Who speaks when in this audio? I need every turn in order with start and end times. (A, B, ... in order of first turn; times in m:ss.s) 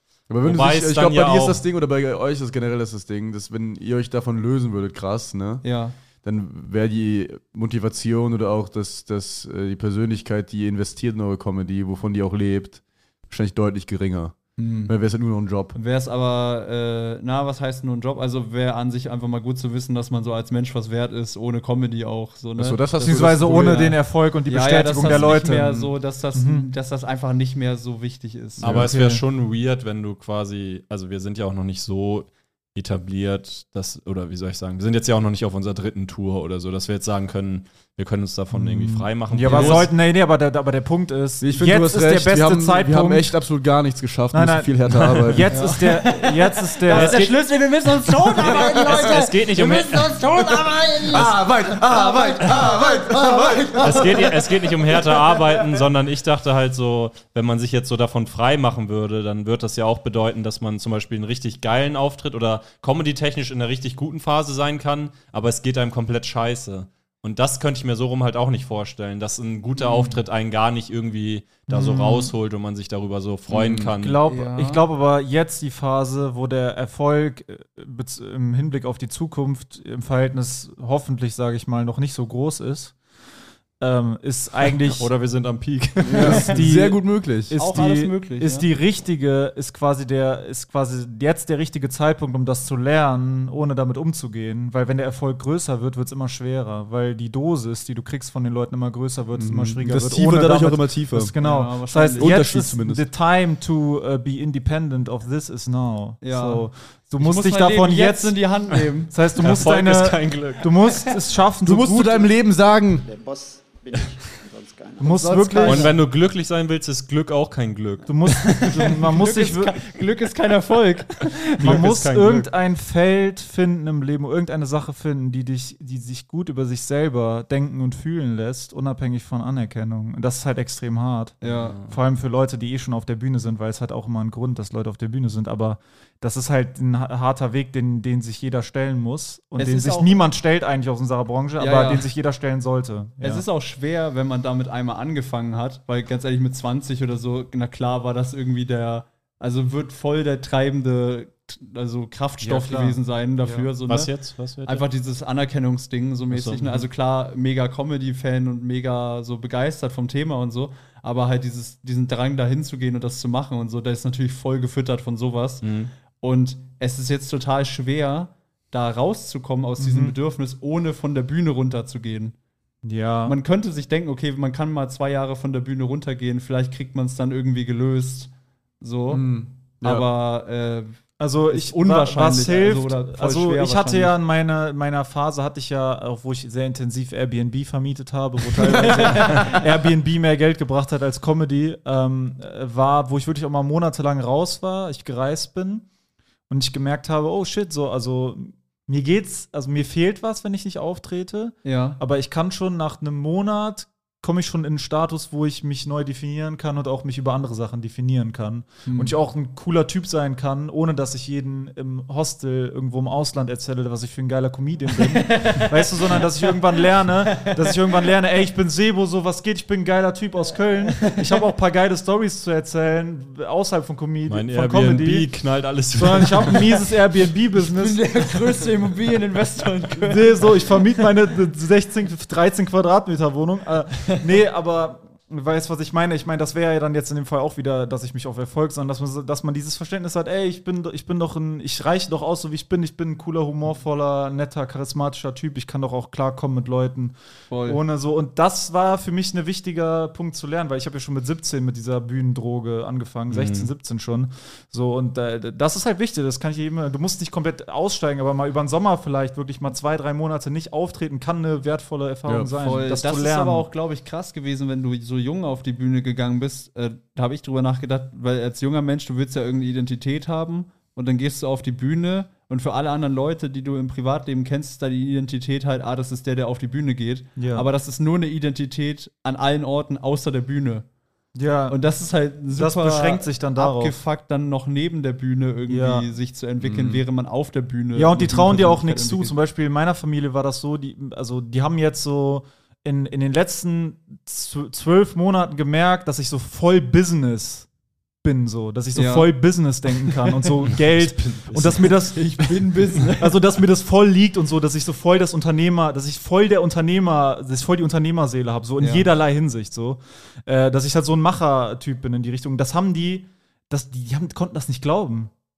0:00.3-0:05.6 A
0:00.4-0:01.6 B
0:05.6-0:06.0 C
0:06.2-0:15.8 A
0:14.6-0:14.9 C
0:15.8-0:28.8 C
0:22.6-0:24.0 A
0:23.0-0:26.7 D
0:28.6-0:28.9 A
0:28.6-0:39.9 B
0:28.7-0:29.2 D
0:38.5-0:43.4 D
0:39.5-0:39.9 C
0:41.4-0:45.5 A
0:44.3-0:47.4 D
0:45.5-0:54.5 C
0:47.0-0:47.2 B
0:48.4-0:49.1 A
0:48.6-0:50.2 B
0:50.4-0:54.4 A
0:53.8-1:14.2 B
1:09.8-1:10.2 C
1:11.7-1:12.3 D
1:13.5-1:13.9 A
1:14.0-1:22.9 D
1:14.2-1:14.8 C
1:23.8-1:25.1 D
1:24.9-1:26.6 B
1:26.0-1:27.6 A
1:26.2-1:48.5 D
1:27.6-1:28.7 C
1:39.4-1:41.3 A
1:41.4-1:42.5 C
1:42.2-1:43.1 A
1:46.2-1:46.6 C
1:47.2-1:49.2 C
1:49.1-1:52.3 D
1:49.4-1:50.7 B
1:51.6-1:53.0 A
1:53.0-1:55.3 E
1:55.0-1:56.0 D
1:55.0-1:56.0 C
1:55.6-1:58.5 B
1:58.1-1:59.8 D
1:58.5-2:01.9 C
2:01.6-2:02.5 B
2:01.6-2:23.4 D
2:11.4-2:11.8 C
2:11.4-2:12.0 B
2:19.6-2:20.2 C
2:21.6-2:22.1 C
2:23.2-2:34.1 C
2:32.4-2:33.7 D
2:33.9-2:34.9 B
2:34.6-2:52.4 C
2:36.3-2:36.9 B
2:45.6-2:45.9 B
2:49.8-2:50.2 D
2:52.8-2:53.4 D
2:53.3-3:01.0 C
2:59.1-3:00.1 A
3:01.2-3:15.9 D
3:01.5-3:04.2 C
3:08.6-3:09.6 C
3:16.5-3:45.3 D
3:21.6-3:22.0 C
3:28.9-3:29.2 C
3:35.1-3:36.3 C
3:44.3-3:46.8 B
3:46.0-3:48.0 D
3:47.6-3:50.5 C
3:50.0-4:23.7 D
4:07.5-4:07.8 C
4:13.3-4:13.7 B
4:22.3-4:22.5 A
4:22.5-4:40.9 C
4:37.4-4:37.7 D
4:41.4-4:41.8 D
4:41.7-4:49.4 C
4:42.5-4:44.0 D
4:45.7-4:46.1 D
4:46.6-4:47.0 A
4:48.0-4:57.7 D
4:58.2-5:02.6 D
4:59.0-4:59.3 C
5:00.2-5:00.6 C
5:00.7-5:01.9 B
5:02.0-5:03.4 C
5:03.2-5:15.3 D
5:08.8-5:09.1 C